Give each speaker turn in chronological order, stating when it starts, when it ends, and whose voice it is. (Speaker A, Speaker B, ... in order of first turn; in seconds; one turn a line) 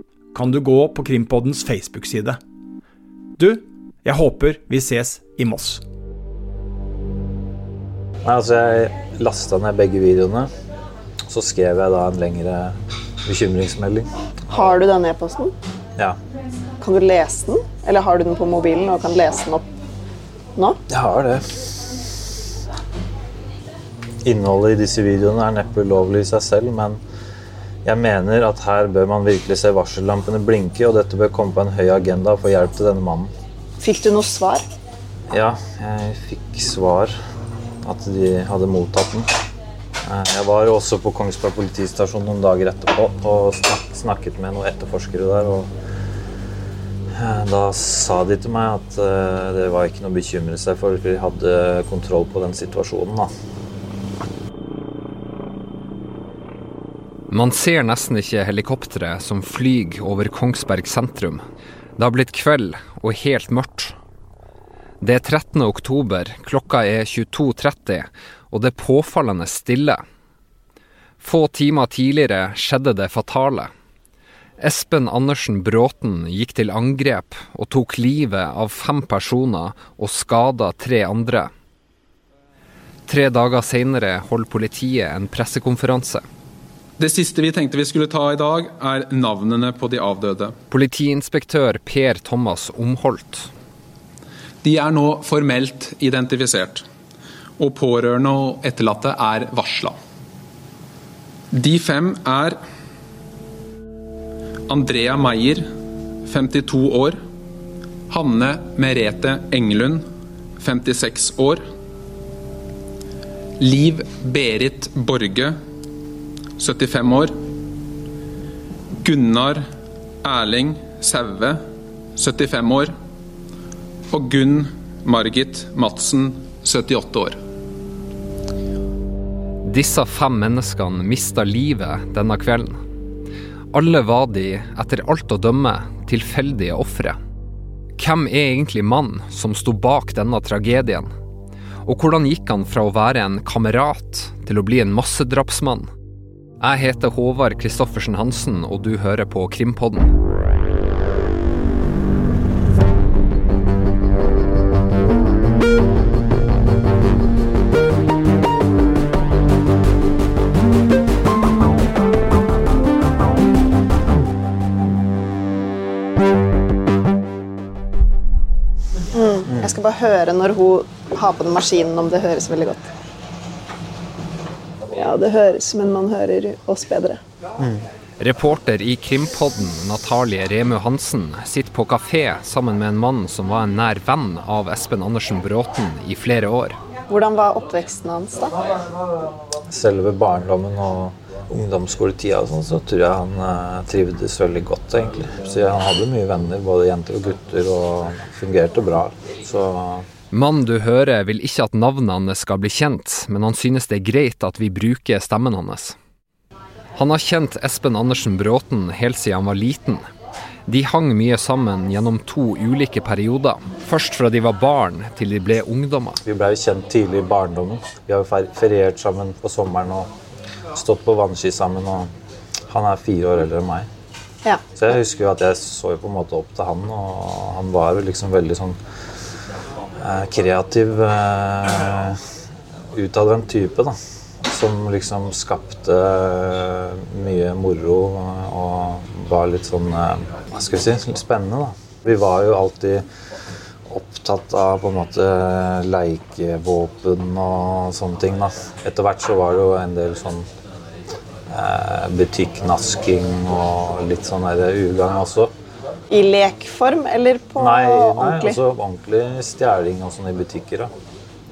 Speaker A: 0.3-2.4
Speaker A: 3.4-5.8
Speaker B: 8.2-10.5
Speaker B: 11.3-14.1
Speaker C: 14.5-15.5
Speaker C: 16.8-19.7
Speaker B: 20.9-21.7
Speaker B: 24.2-27.0
Speaker B: 27.9-33.3
Speaker C: 33.8-34.6
Speaker B: 35.3-37.2
Speaker B: 37.8-39.3
Speaker B: 40.0-45.7
Speaker B: 47.1-53.3
Speaker D: 57.3-61.4
Speaker D: 62.0-64.0
Speaker D: 65.0-70.0
Speaker D: 71.2-73.7
Speaker D: 74.6-81.5
Speaker D: 83.1-86.2
Speaker E: 87.0-90.6
Speaker D: 90.7-93.5
Speaker E: 94.6-96.8
Speaker E: 97.6-100.0
Speaker E: 101.5-102.6
Speaker E: 104.7-105.7
Speaker E: 106.3-107.2
Speaker E: 108.1-110.0
Speaker E: 110.6-111.6
Speaker E: 113.6-115.6
Speaker E: 116.6-117.4
Speaker E: 119.0-119.7
Speaker E: 120.2-121.6
Speaker E: 122.2-122.9
Speaker E: 124.1-127.4
Speaker D: 129.7-132.8
Speaker D: 133.7-137.2
Speaker D: 138.0-141.1
Speaker D: 141.8-145.9
Speaker D: 146.6-150.1
Speaker C: 169.1-172.9
Speaker C: 175.0-177.2
Speaker B: 177.6-177.8
Speaker D: 178.2-186.8
Speaker C: 187.1-188.6
Speaker B: 189.7-200.1
Speaker D: 200.3-205.9
Speaker D: 207.0-210.1
Speaker D: 210.7-216.2
Speaker B: 216.2-220.1
Speaker B: 220.7-222.1
Speaker B: 222.7-223.9
Speaker B: 224.8-228.8
Speaker B: 230.0-232.2
Speaker B: 232.9-243.1
Speaker B: 243.9-250.5
Speaker B: 251.5-255.5
Speaker C: 256.1-258.6
Speaker B: 257.6-260.9